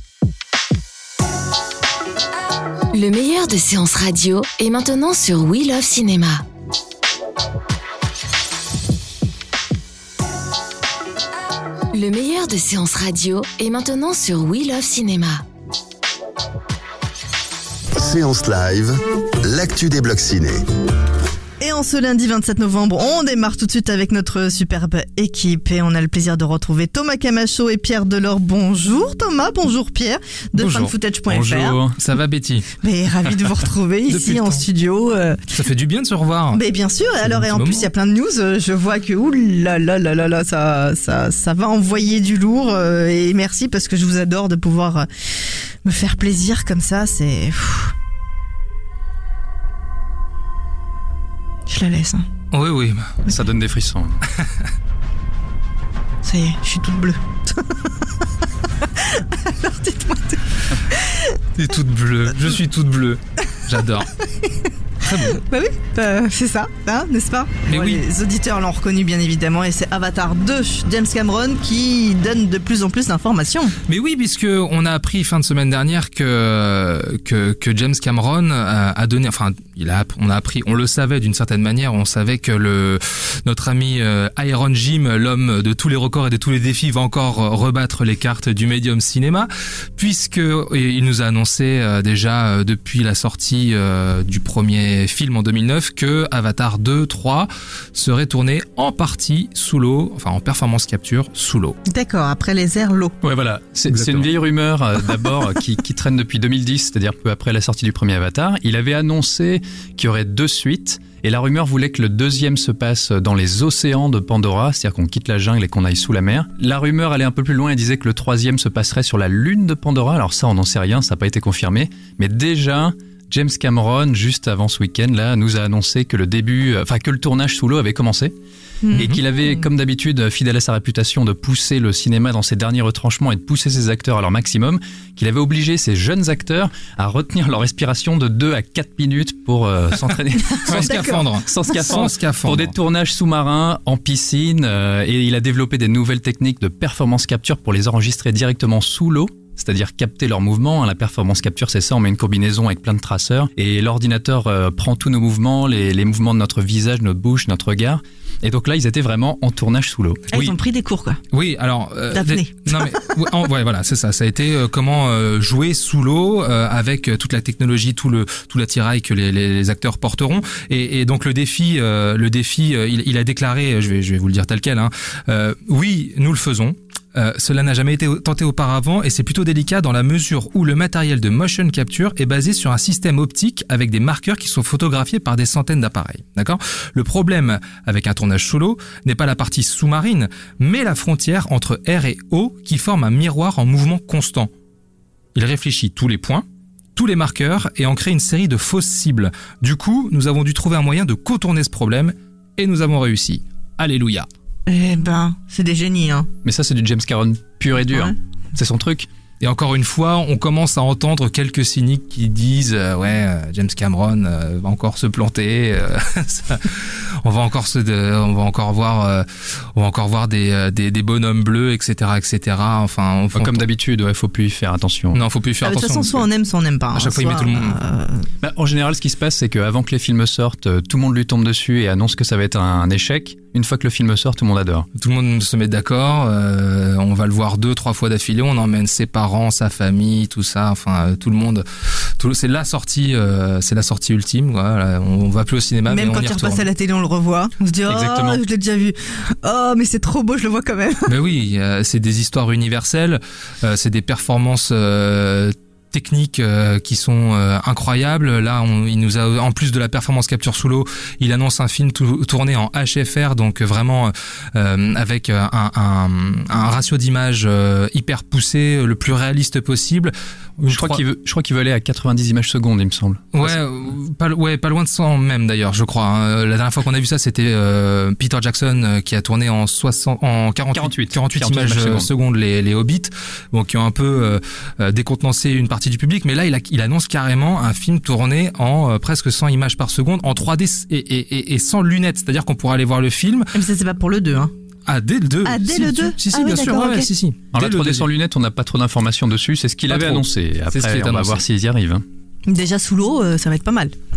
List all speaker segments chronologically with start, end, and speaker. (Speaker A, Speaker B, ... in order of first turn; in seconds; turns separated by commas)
Speaker A: 2.9-6.4, Speaker A: 11.9-15.4, Speaker B: 18.0-20.6, Speaker C: 21.6-31.8, Speaker D: 30.6-30.9, Speaker E: 31.3-32.0, Speaker D: 32.0-32.7, Speaker C: 32.8-35.4, Speaker D: 34.1-34.6, Speaker D: 35.5-36.6, Speaker C: 36.5-47.9, Speaker D: 37.2-37.9, Speaker C: 51.7-52.2, Speaker D: 52.5-53.4, Speaker E: 53.3-54.2, Speaker C: 56.2-57.9, Speaker C: 58.8-61.3, Speaker D: 61.6-64.1, Speaker D: 65.0-65.4, Speaker C: 65.2-73.7, Speaker D: 67.7-68.0, Speaker D: 73.9-101.8, Speaker C: 101.9-103.2, Speaker E: 103.2-128.3, Speaker D: 103.9-104.3, Speaker C: 128.8-129.6, Speaker E: 128.9-160.3, Speaker C: 140.4-141.3, Speaker D: 140.6-142.7, Speaker C: 160.3-161.2, Speaker D: 161.3-194.5, Speaker C: 162.1-163.0, Speaker D: 195.3-196.4, Speaker D: 197.0-204.3, Speaker C: 204.7-206.3, Speaker E: 206.4-209.1, Speaker C: 207.8-208.2, Speaker D: 209.4-223.7, Speaker E: 223.4-225.2, Speaker D: 225.1-226.3, Speaker C: 225.6-228.3, Speaker D: 226.9-227.8, Speaker E: 228.4-234.9, Speaker D: 234.9-246.7, Speaker C: 245.9-251.1, Speaker E: 247.9-248.4, Speaker D: 251.1-271.0, Speaker E: 270.7-273.6, Speaker D: 273.3-293.5, Speaker E: 280.7-282.1, Speaker C: 293.5-294.5, Speaker D: 294.9-298.1, Speaker C: 295.4-297.1, Speaker E: 297.5-302.0, Speaker D: 299.9-301.4, Speaker C: 302.5-303.9